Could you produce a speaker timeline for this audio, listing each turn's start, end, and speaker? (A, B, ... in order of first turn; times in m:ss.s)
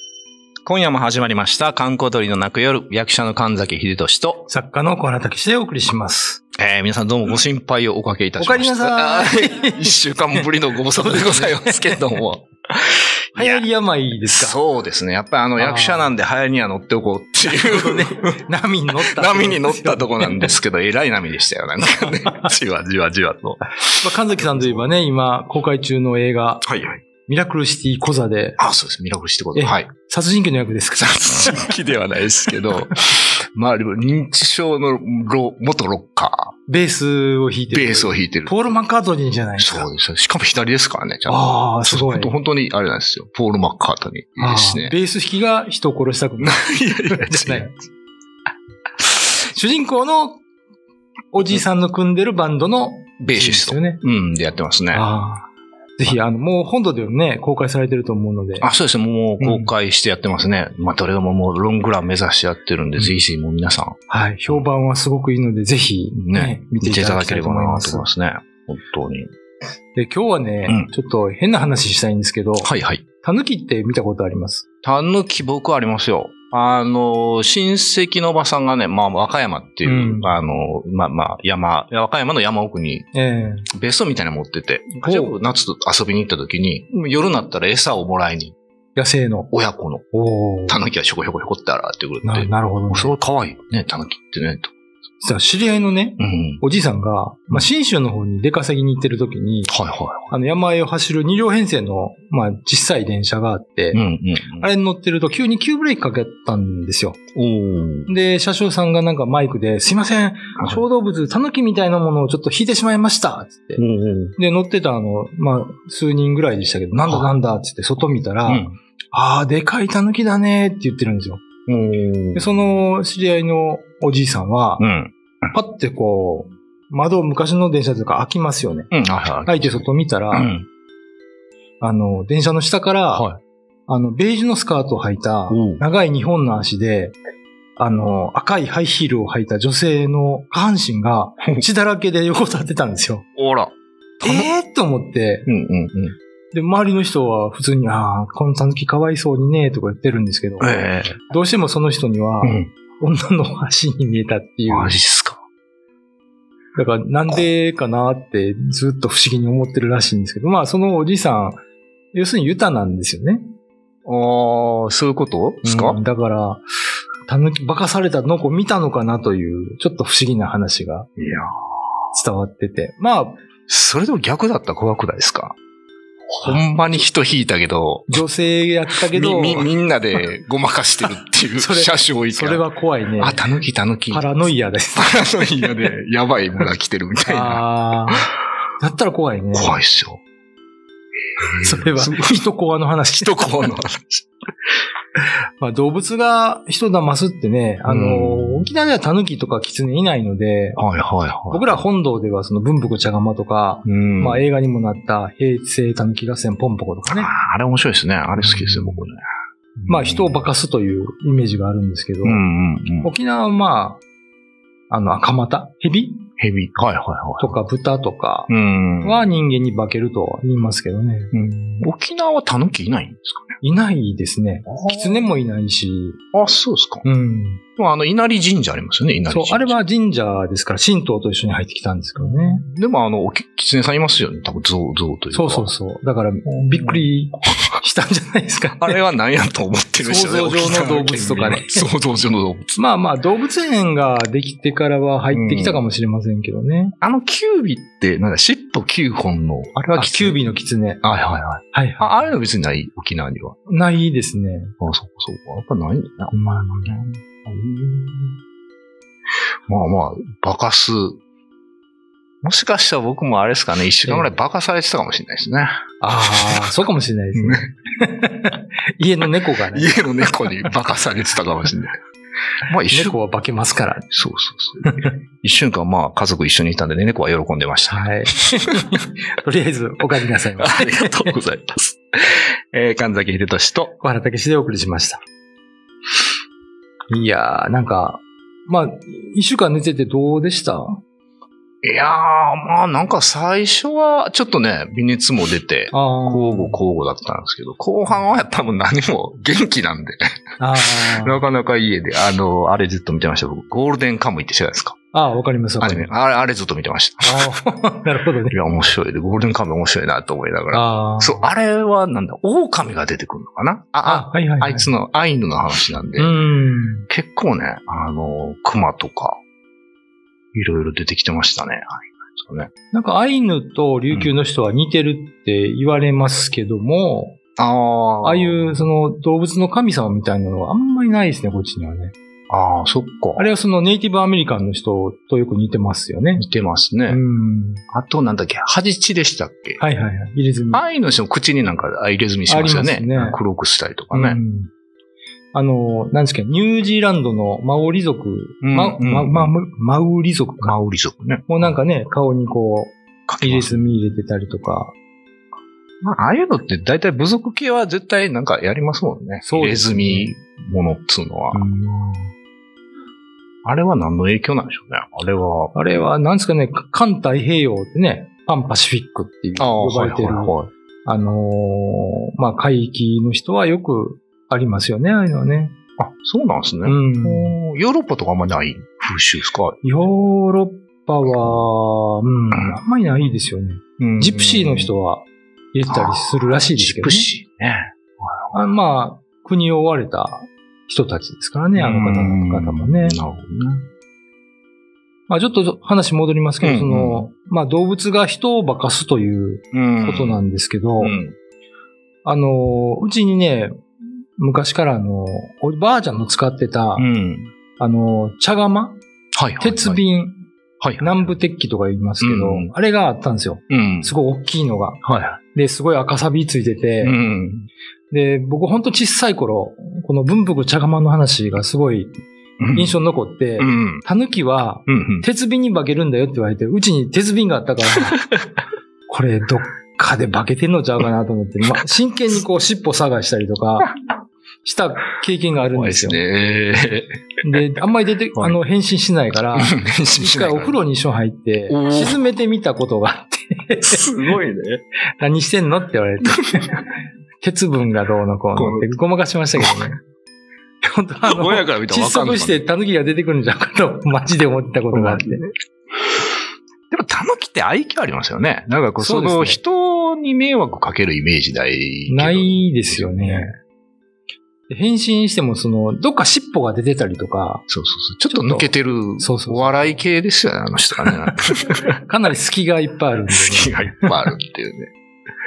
0:00.6-0:04.4 A
0:04.5-0:06.4 B
0:06.6-0:13.6 A
0:08.4-0:12.1 B
0:13.4-0:14.6 B
0:14.3-0:18.4 A
0:15.6-0:16.1 B
0:17.4-0:20.5 B
0:19.0-0:24.9 A
0:24.0-0:26.6 B
0:26.6-0:27.0 A
0:27.2-0:28.6 B
0:28.6-0:29.9 A
0:29.5-0:31.7 B
0:30.9-0:36.5 A
0:36.7-0:39.9 B
0:37.7-0:38.6 A
0:39.6-0:44.9 A
0:41.3-0:42.3 B
0:44.4-0:47.7 B
0:46.4-0:47.7 A
0:49.1-0:50.4 B
0:51.3-0:54.0 B
0:53.2-0:55.0 A
0:54.9-0:58.7 B
0:58.6-1:04.6 A
0:59.4-0:59.7 B
1:04.1-1:08.1 B
1:06.1-1:09.3 A
1:09.9-1:14.6 B
1:12.6-1:13.0 A
1:14.8-1:23.1 A
1:19.8-1:20.4 B
1:23.1-1:23.7 B
1:23.7-1:28.5 A
1:25.0-1:25.4 B
1:28.9-1:29.5 B
1:29.5-1:30.0 A
1:30.1-1:30.8 B
1:30.7-1:34.7 A
1:32.2-1:33.1 B
1:35.2-1:39.7 B
1:36.2-1:36.6 A
1:39.7-1:40.3 A
1:40.3-1:44.0 B
1:43.9-1:44.7 A
1:44.6-1:47.2 B
1:47.3-1:48.1 A
1:48.1-1:53.8 B
1:50.6-1:50.8 A
1:53.8-1:54.3 A
1:54.4-2:01.4 B
1:58.5-1:58.8 A
2:01.7-2:02.5 A
2:02.3-2:04.8 B
2:04.8-2:05.1 A
2:05.5-2:08.9 B
2:08.9-2:10.7 A
2:09.4-2:10.5 B
2:11.8-2:13.2 B
2:13.1-2:13.4 A
2:13.9-2:17.2 B
2:15.5-2:15.8 A
2:17.8-2:23.3 B
2:23.4-2:24.5 A
2:24.2-2:25.5 B
2:25.5-2:26.2 A
2:26.5-2:35.0 B
2:30.6-2:31.2 A
2:32.4-2:32.7 A
2:34.7-2:35.4 A
2:36.7-2:41.6 B
2:42.1-2:43.4 B
2:44.0-2:46.0 A
2:45.6-2:46.6 B
2:47.2-2:51.1 B
2:51.2-2:51.5 A
2:52.1-2:53.4 B
2:53.7-2:55.5 A
2:56.3-2:58.2 A
2:58.1-2:59.7 B
2:59.1-3:02.6 A
3:01.6-3:03.4 B
3:03.2-3:04.2 A
3:04.1-3:05.2 B
3:05.0-3:08.2 A
3:07.2-3:08.3 B
3:08.8-3:09.7 B
3:09.5-3:10.2 A
3:11.4-3:12.4 A
3:11.6-3:13.5 B
3:13.2-3:14.3 A
3:15.6-3:20.8 B
3:17.8-3:18.7 A
3:20.8-3:21.8 A
3:21.5-3:27.3 B
3:23.8-3:24.4 A
3:27.0-3:29.2 A
3:28.4-3:29.0 B
3:29.8-3:30.4 A
3:29.9-3:32.4 B
3:32.2-3:33.1 A
3:33.0-3:34.0 B
3:34.9-3:36.2 B
3:36.4-3:37.5 A
3:37.4-3:41.3 B
3:38.5-3:39.2 A
3:41.3-3:43.5 A
3:43.6-3:46.2 B
3:44.7-3:45.2 A
3:46.3-3:47.0 A
3:47.0-3:47.6 B
3:47.8-3:49.8 A
3:49.3-3:52.6 B
3:52.2-3:55.7 A
3:55.3-3:59.0 B
3:56.4-3:57.1 A
3:58.8-4:02.7 A
4:00.0-4:01.9 B
4:02.8-4:07.0 B
4:05.3-4:05.8 A
4:07.0-4:10.4 A
4:09.7-4:11.0 B
4:11.0-4:13.6 A
4:11.7-4:12.3 B
4:13.7-4:14.7 B
4:14.8-4:16.3 A
4:16.3-4:17.0 B
4:16.9-4:18.4 A
4:19.7-4:21.2 A
4:22.4-4:25.7 A
4:24.0-4:24.3 B
4:26.0-4:30.7 B
4:26.3-4:26.7 A
4:27.4-4:27.7 A
4:29.7-4:32.0 A
4:32.6-4:33.2 A
4:32.9-4:34.1 B
4:34.1-4:38.7 A
4:37.9-4:41.3 B
4:40.6-4:43.9 A
4:44.0-4:45.2 B
4:47.1-4:51.0 B
4:51.8-5:00.2 A
4:55.9-4:56.8 B
5:00.6-5:01.4 B
5:00.8-5:05.0 A
5:05.1-5:06.1 B
5:05.8-5:07.6 A
5:07.2-5:08.5 B
5:08.5-5:16.3 A
5:10.7-5:11.5 B
5:14.0-5:14.9 B
5:16.2-5:17.0 B
5:17.1-5:19.4 A
5:20.5-5:22.7 A
5:22.9-5:27.4 B
5:27.6-5:28.8 A
5:28.2-5:32.1 B
5:32.5-5:33.5 A
5:33.4-5:36.4 B
5:36.4-5:37.2 A
5:37.1-5:37.8 B
5:37.9-5:39.8 A
5:39.8-5:40.8 B
5:40.7-5:44.4 A
5:42.5-5:43.4 B
5:44.1-5:44.7 B
5:45.5-5:50.8 B
5:48.6-5:49.5 A
5:50.6-5:51.7 A
5:51.5-5:54.9 B
5:53.3-5:53.9 A
5:56.0-6:01.6 A
5:59.4-6:00.3 B
6:01.5-6:02.3 B
6:03.6-6:05.7 A
6:05.7-6:15.8 B
6:09.6-6:10.7 A
6:16.0-6:19.8 A
6:16.8-6:17.6 B
6:19.8-6:27.3 B
6:22.5-6:22.8 A
6:24.0-6:24.9 A
6:25.9-6:28.5 A
6:28.5-6:33.2 B
6:31.8-6:33.9 A
6:35.3-6:41.2 B
6:36.6-6:37.3 A
6:39.7-6:40.4 A
6:41.0-6:41.3 A
6:42.2-6:43.7 B
6:44.4-6:47.1 B
6:47.0-6:47.5 A
6:47.8-6:49.0 B
6:49.4-6:50.0 A
6:49.6-6:50.4 B
6:50.8-6:51.3 A
6:51.0-6:57.2 B
6:52.2-6:52.7 A
6:53.7-6:54.1 A
6:55.0-6:55.4 A
6:57.0-6:57.7 A
6:58.1-7:02.1 B
7:02.6-7:03.0 A
7:02.7-7:08.2 B
7:03.6-7:04.0 A
7:04.9-7:05.2 A
7:09.1-7:13.9 B
7:14.6-7:16.2 B
7:15.7-7:17.2 A
7:17.4-7:24.3 B
7:19.5-7:20.7 A
7:21.7-7:22.2 A
7:23.8-7:24.8 A
7:25.2-7:26.7 B
7:27.4-7:30.0 B
7:28.6-7:28.8 A
7:30.8-7:35.4 B
7:31.2-7:32.6 A
7:34.9-7:35.4 A
7:36.9-7:43.5 A
7:39.0-7:39.6 B
7:42.1-7:43.5 B
7:44.7-7:47.7 B
7:47.7-7:51.9 A
7:48.3-7:50.0 B
7:52.0-7:54.2 B
7:53.3-7:54.9 A